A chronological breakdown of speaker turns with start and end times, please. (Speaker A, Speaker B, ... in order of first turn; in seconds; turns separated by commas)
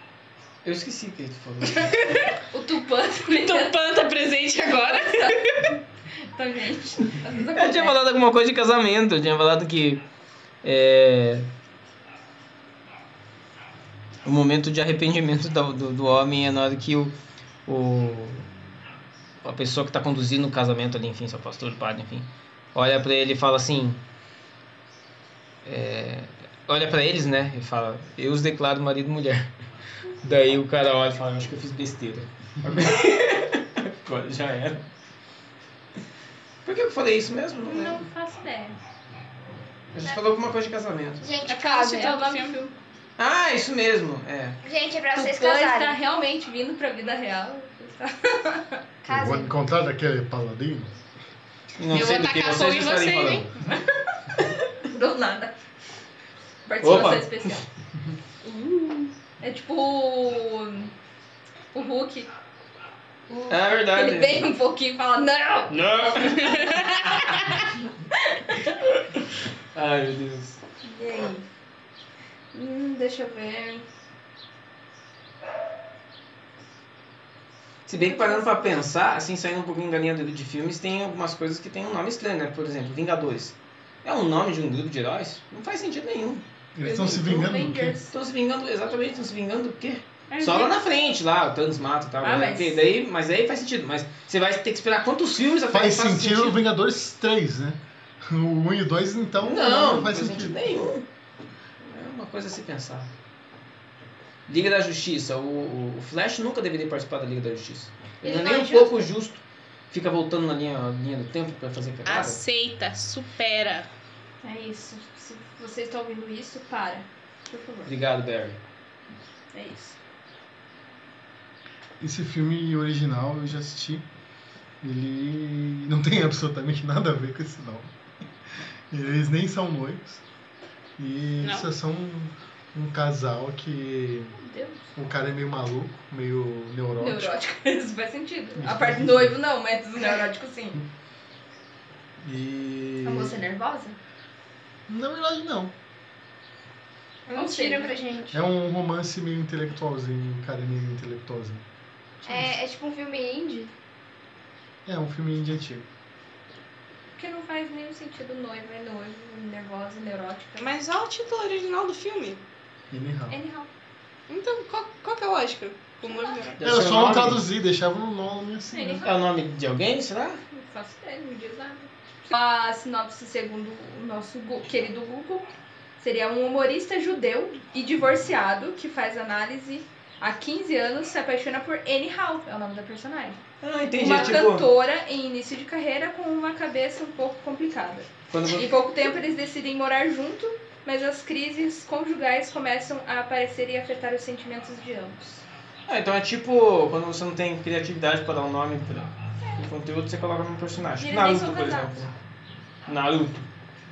Speaker A: 0.6-2.2, Speaker B: 1.8-2.3, Speaker C: 2.5-3.8, Speaker B: 3.4-5.7, Speaker C: 4.9-5.8, Speaker C: 6.3-8.0, Speaker A: 7.5-10.0, Speaker A: 10.6-11.5, Speaker A: 14.2-17.1, Speaker A: 17.7-18.5, Speaker A: 19.4-24.0, Speaker A: 25.6-29.5, Speaker A: 30.2-34.8, Speaker A: 36.6-38.0, Speaker C: 37.6-38.8, Speaker A: 39.9-41.3, Speaker D: 41.2-42.1, Speaker C: 41.5-42.8, Speaker B: 41.5-42.6, Speaker A: 43.2-44.6, Speaker D: 44.6-46.0, Speaker C: 45.1-48.8, Speaker D: 49.0-49.5, Speaker E: 49.1-50.9, Speaker A: 51.8-53.5, Speaker B: 51.9-53.5, Speaker C: 53.6-54.0, Speaker C: 54.8-55.5, Speaker C: 56.7-57.6, Speaker A: 56.8-57.6, Speaker C: 58.4-60.9, Speaker C: 61.7-62.3, Speaker C: 63.3-65.8, Speaker A: 63.5-64.5, Speaker A: 65.7-67.6, Speaker C: 66.4-66.7, Speaker C: 68.1-68.8, Speaker A: 69.7-70.6, Speaker C: 70.8-71.5, Speaker C: 72.5-73.9, Speaker A: 77.9-86.4, Speaker C: 77.9-78.9, Speaker E: 86.8-88.0, Speaker C: 86.8-88.1, Speaker A: 88.1-96.6, Speaker C: 90.3-90.7, Speaker C: 92.2-92.8, Speaker E: 95.7-100.8, Speaker A: 99.4-101.1, Speaker A: 101.8-103.1, Speaker A: 104.5-112.4, Speaker D: 108.2-109.1, Speaker B: 112.1-113.9, Speaker C: 114.4-117.9, Speaker A: 117.9-118.6, Speaker C: 119.5-120.0, Speaker E: 122.0-124.0, Speaker E: 124.8-127.9, Speaker E: 128.9-130.2, Speaker E: 131.0-134.4, Speaker B: 131.4-131.7, Speaker C: 134.4-134.9, Speaker E: 134.9-137.4, Speaker C: 137.0-140.8, Speaker E: 138.6-139.4, Speaker E: 142.2-143.4, Speaker C: 143.0-144.0, Speaker E: 144.9-145.7, Speaker D: 147.3-148.4, Speaker C: 147.3-148.0, Speaker E: 148.3-151.7, Speaker C: 152.2-152.5, Speaker D: 152.3-153.7, Speaker E: 154.9-155.9, Speaker C: 157.2-160.7, Speaker B: 160.6-162.4, Speaker E: 162.9-163.4, Speaker C: 163.3-163.7, Speaker B: 164.3-166.6, Speaker C: 166.1-166.3, Speaker A: 166.6-167.4, Speaker E: 166.6-169.0, Speaker C: 168.7-169.1, Speaker A: 169.0-170.4, Speaker C: 170.5-175.5, Speaker C: 176.0-183.4, Speaker A: 183.6-184.7, Speaker C: 183.9-195.4, Speaker A: 188.3-188.7, Speaker A: 195.9-202.1, Speaker C: 201.0-202.1, Speaker A: 202.9-203.5